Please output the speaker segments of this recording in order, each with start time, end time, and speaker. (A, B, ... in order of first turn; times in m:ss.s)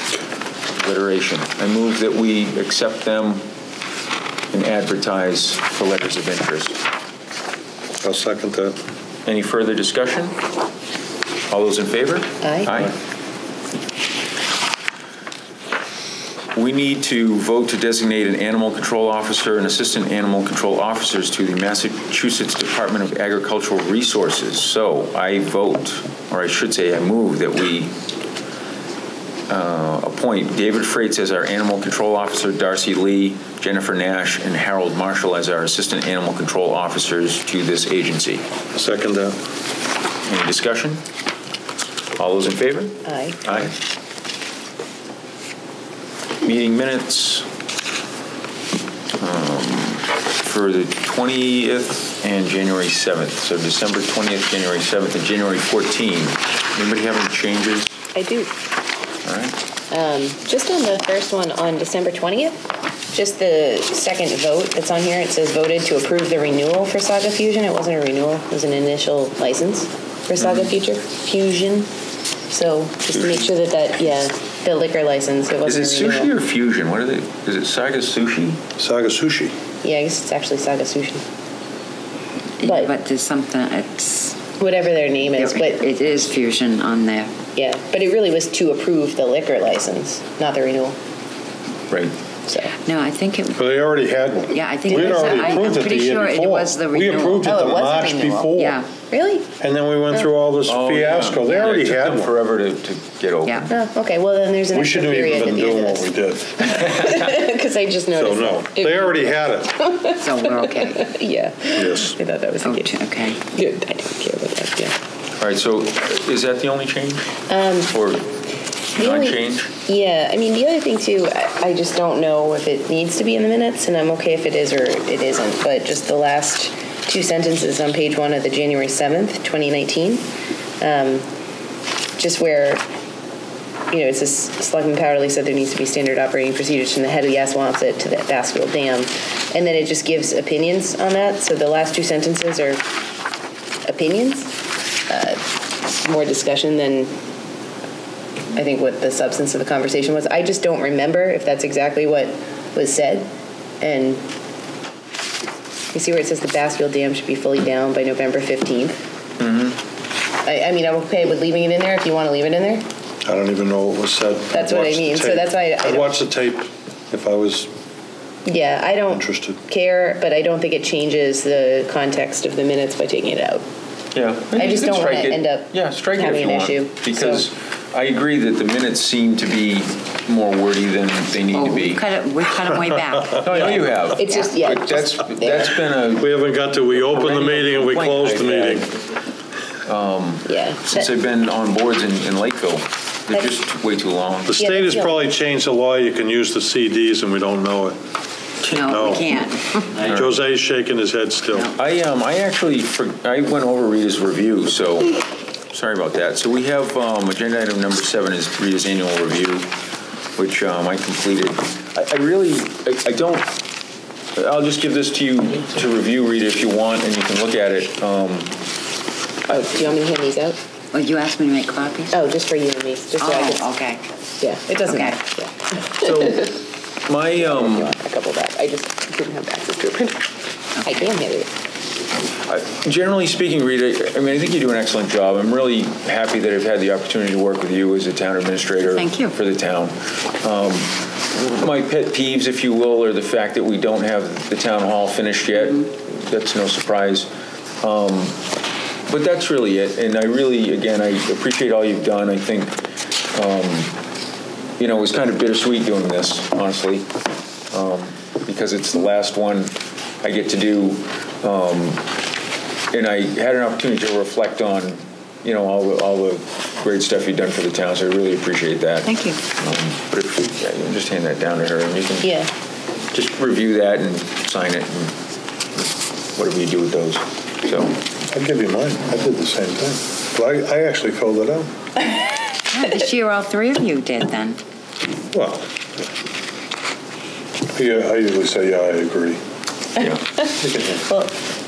0:00.8-0:03.4 A
0:04.5-0:06.8 A
0:08.0-0:08.8 B
0:09.2-0:10.4 A
0:11.5-0:12.9 A
0:12.4-0:12.7 C
0:16.5-0:27.9 A
0:29.5-0:38.4 A
0:38.7-0:39.4 B
0:40.2-0:41.0 A
0:42.2-0:43.7 A
0:43.0-0:43.4 C
0:46.4-0:47.4 A
0:49.2-0:58.0 A
0:58.1-0:58.5 C
0:59.2-0:59.6 A
0:59.9-1:11.9 C
1:10.4-1:10.7 A
1:12.5-1:16.3 C
1:13.1-1:13.5 A
1:15.6-1:18.6 A
1:18.8-1:19.6 B
1:19.8-1:21.2 C
1:22.6-1:24.4 D
1:22.6-1:22.9 C
1:24.6-1:25.8 C
1:25.4-1:27.3 D
1:27.6-1:31.0 C
1:32.5-1:32.7 C
1:32.8-1:33.6 D
1:33.5-1:38.8 B
1:34.5-1:37.6 D
1:35.3-1:35.6 C
1:37.4-1:38.5 C
1:38.5-1:38.9 D
1:39.1-1:39.5 C
1:39.6-1:42.3 B
1:40.6-1:43.7 A
1:43.7-1:54.9 C
1:44.7-1:46.8 B
1:48.1-1:49.8 B
1:50.2-1:51.2 D
1:51.8-1:52.2 B
1:52.6-1:53.4 D
1:55.4-1:58.3 A
1:57.5-1:57.9 C
1:58.9-1:59.7 A
1:59.0-2:10.2 C
2:10.8-2:11.2 C
2:12.2-2:12.8 C
2:13.9-2:22.8 C
2:23.8-2:24.6 C
2:25.1-2:27.1 C
2:28.5-2:33.3 C
2:33.8-2:34.2 C
2:35.9-2:39.0 C
2:39.4-2:39.8 A
2:40.4-2:42.9 C
2:43.2-2:47.7 B
2:44.5-2:46.1 C
2:48.4-2:53.6 C
2:49.1-2:49.6 B
2:54.1-3:02.0 A
2:54.5-2:57.4 C
3:01.5-3:04.5 D
3:03.4-3:09.0 A
3:04.2-3:05.7 C
3:06.2-3:08.9 B
3:09.8-3:14.6 A
3:10.4-3:11.1 C
3:14.5-3:18.0 B
3:14.6-3:15.2 C
3:18.7-3:20.0 D
3:18.8-3:19.3 B
3:20.0-3:21.7 B
3:20.0-3:20.3 A
3:21.7-3:25.2 A
3:25.7-3:29.7 A
3:30.4-3:33.5 A
3:34.4-3:38.5 A
3:39.5-3:40.6 C
3:40.9-3:42.1 D
3:42.1-3:43.7 C
3:43.2-3:44.0 D
3:44.4-3:46.6 C
3:44.8-3:45.2 D
3:45.9-3:47.9 A
3:47.4-3:51.5 C
3:50.8-3:51.1 D
3:52.5-4:07.3 A
3:58.9-3:59.3 D
4:07.8-4:08.4 A
4:09.1-4:12.8 A
4:13.3-4:13.9 A
4:14.8-4:17.1 A
4:17.7-4:22.0 A
4:22.9-4:32.4 A
4:29.0-4:29.4 D
4:32.2-4:32.5 C
4:33.1-4:35.1 A
4:35.8-4:38.0 A
4:38.3-4:41.7 B
4:42.7-4:44.6 D
4:45.3-4:45.7 B
4:47.7-4:49.4 B
4:50.0-4:51.4 C
4:50.6-4:51.0 B